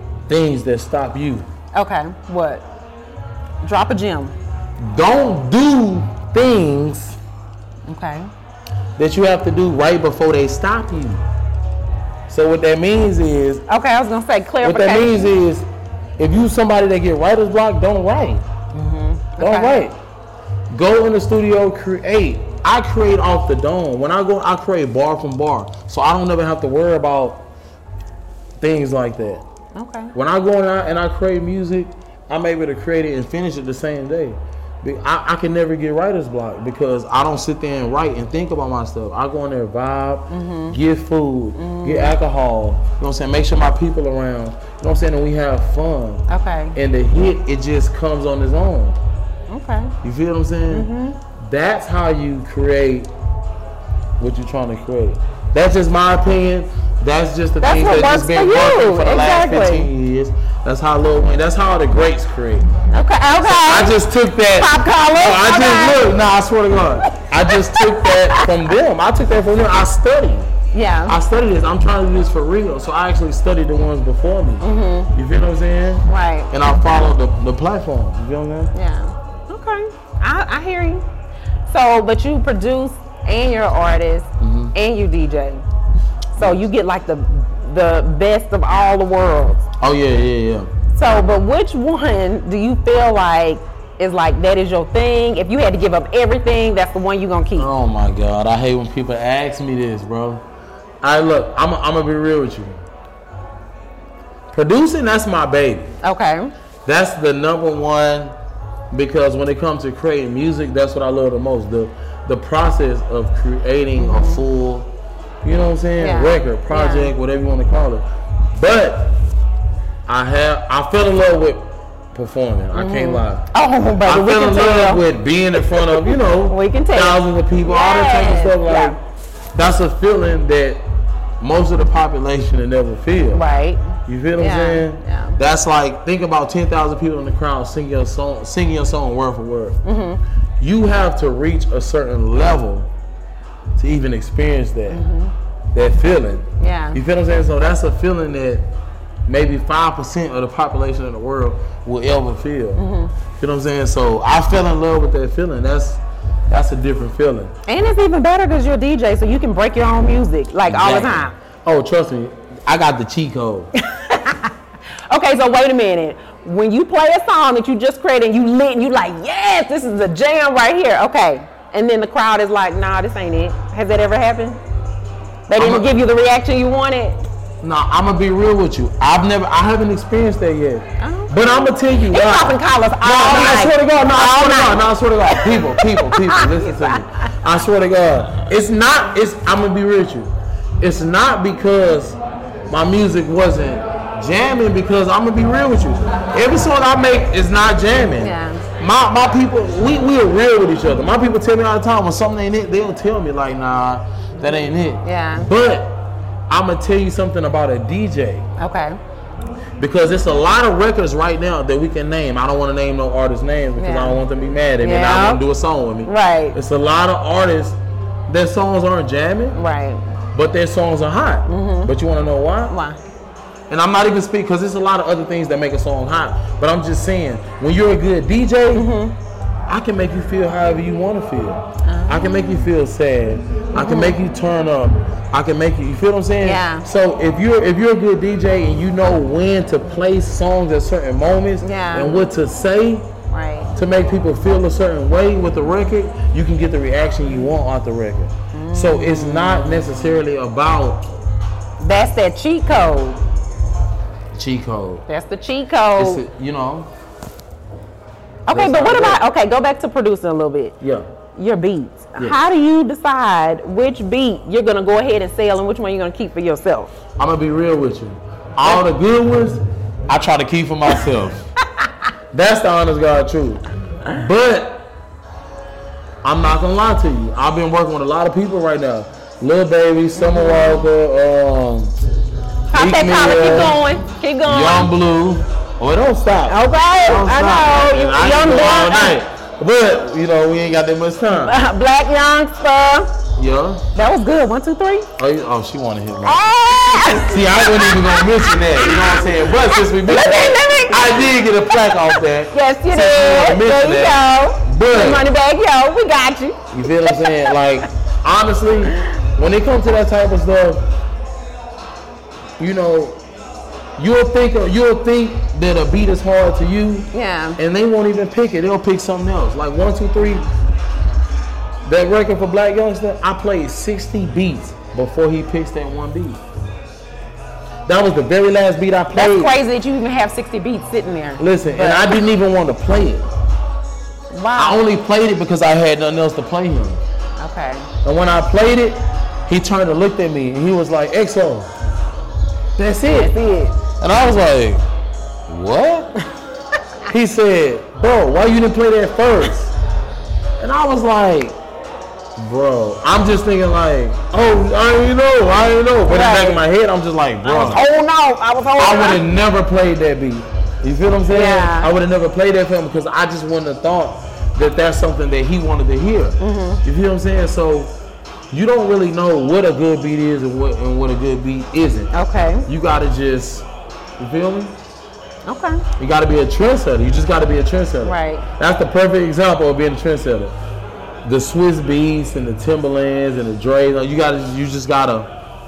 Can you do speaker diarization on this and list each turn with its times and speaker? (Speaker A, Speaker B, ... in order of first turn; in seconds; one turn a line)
Speaker A: 0.3-1.5
Speaker B: 1.7-2.6
Speaker B: 3.6-4.3
Speaker A: 4.8-7.2
Speaker B: 7.9-8.3
Speaker A: 9.0-11.2
Speaker A: 12.3-13.6
Speaker B: 13.7-15.3
Speaker A: 14.6-15.7
Speaker A: 16.2-18.4
Speaker B: 18.7-19.8
Speaker A: 19.4-20.0
Speaker A: 20.7-27.5
Speaker A: 28.6-29.4
Speaker B: 29.8-30.1
Speaker A: 30.1-49.0
Speaker B: 40.3-40.8
Speaker B: 41.6-42.2
Speaker B: 46.3-46.8
Speaker B: 49.5-49.9
Speaker A: 50.0-53.1
Speaker B: 50.7-51.2
Speaker A: 54.2-62.7
Speaker B: 57.6-59.9
Speaker B: 62.9-64.0
Speaker A: 63.4-70.5
Speaker B: 64.5-66.2
Speaker B: 67.1-68.5
Speaker B: 70.7-71.2
Speaker A: 71.1-78.7
Speaker B: 74.6-75.1
Speaker B: 76.1-76.5
Speaker B: 78.7-81.0
Speaker B: 81.7-85.6
Speaker A: 84.4-84.7
Speaker B: 86.4-89.7
Speaker A: 89.8-90.7
Speaker B: 91.0-97.7
Speaker A: 97.6-100.4
Speaker A: 101.0-102.8
Speaker A: 104.5-105.9
Speaker B: 106.0-106.5
Speaker A: 106.9-108.3
Speaker A: 108.9-114.9
Speaker B: 114.0-114.4
Speaker A: 115.4-119.2
Speaker B: 116.0-117.1
Speaker A: 120.1-123.5
Speaker B: 122.7-125.0
Speaker A: 124.0-129.0
Speaker B: 125.7-129.0
Speaker A: 129.6-130.8
Speaker A: 131.4-133.4
Speaker B: 133.3-133.8
Speaker A: 134.1-139.8
Speaker B: 134.3-135.4
Speaker B: 139.8-140.2
Speaker A: 140.6-142.9
Speaker A: 143.8-145.0
Speaker B: 144.9-145.3
Speaker A: 145.7-148.7
Speaker B: 146.6-147.0
Speaker A: 149.3-152.8
Speaker B: 152.8-153.1
Speaker A: 153.4-157.5
Speaker B: 157.7-161.3
Speaker A: 160.7-163.7
Speaker B: 163.8-164.5
Speaker B: 165.1-174.6
Speaker B: 175.5-177.2
Speaker A: 175.6-175.9
Speaker A: 177.6-192.2
Speaker B: 181.0-187.3
Speaker A: 192.7-208.5
Speaker B: 198.2-198.7
Speaker B: 205.0-205.5
Speaker B: 208.6-209.0
Speaker A: 209.8-217.8
Speaker B: 213.8-214.2
Speaker B: 214.8-215.4
Speaker B: 216.1-216.6
Speaker A: 218.3-219.6
Speaker B: 219.5-220.0
Speaker A: 220.3-222.7
Speaker B: 221.5-221.9
Speaker B: 222.7-223.0
Speaker A: 223.7-228.9
Speaker B: 228.7-229.2
Speaker A: 229.7-243.1
Speaker B: 231.8-232.7
Speaker B: 233.8-234.2
Speaker B: 236.4-236.9
Speaker B: 241.6-242.3
Speaker B: 243.3-243.7
Speaker A: 243.7-251.1
Speaker B: 248.5-250.1
Speaker B: 251.8-253.2
Speaker A: 254.3-255.1
Speaker B: 255.1-256.2
Speaker A: 256.0-256.9
Speaker B: 258.5-260.8
Speaker A: 258.5-259.2
Speaker A: 260.8-261.1
Speaker B: 261.4-266.9
Speaker A: 267.2-271.5
Speaker A: 272.3-274.9
Speaker A: 276.2-281.9
Speaker B: 280.1-280.9
Speaker B: 282.7-284.9
Speaker A: 282.7-283.8
Speaker A: 284.4-291.6
Speaker B: 286.5-289.2
Speaker B: 291.3-293.1
Speaker A: 293.4-293.9
Speaker B: 293.9-295.1
Speaker A: 295.2-305.3
Speaker B: 296.2-301.3
Speaker B: 302.5-307.6
Speaker A: 306.7-310.9
Speaker A: 312.6-313.2
Speaker A: 314.0-320.5
Speaker B: 317.1-317.6
Speaker A: 321.9-326.4
Speaker A: 327.9-329.6
Speaker B: 329.1-332.2
Speaker A: 331.4-333.3
Speaker B: 334.3-334.8
Speaker A: 334.6-337.0
Speaker B: 337.4-337.9
Speaker A: 338.0-341.7
Speaker A: 342.8-343.4
Speaker B: 343.1-343.8
Speaker A: 344.0-344.8
Speaker A: 345.5-346.1
Speaker A: 347.1-349.7
Speaker A: 350.6-351.6
Speaker A: 352.4-357.8
Speaker B: 356.1-356.6
Speaker B: 357.4-359.2
Speaker A: 358.8-368.0
Speaker B: 361.3-361.9
Speaker B: 366.4-366.8
Speaker A: 368.5-372.1
Speaker B: 372.1-372.7
Speaker A: 372.7-373.7
Speaker A: 374.2-374.8
Speaker B: 375.5-375.8
Speaker A: 376.0-380.6
Speaker B: 378.0-378.4
Speaker A: 381.2-385.3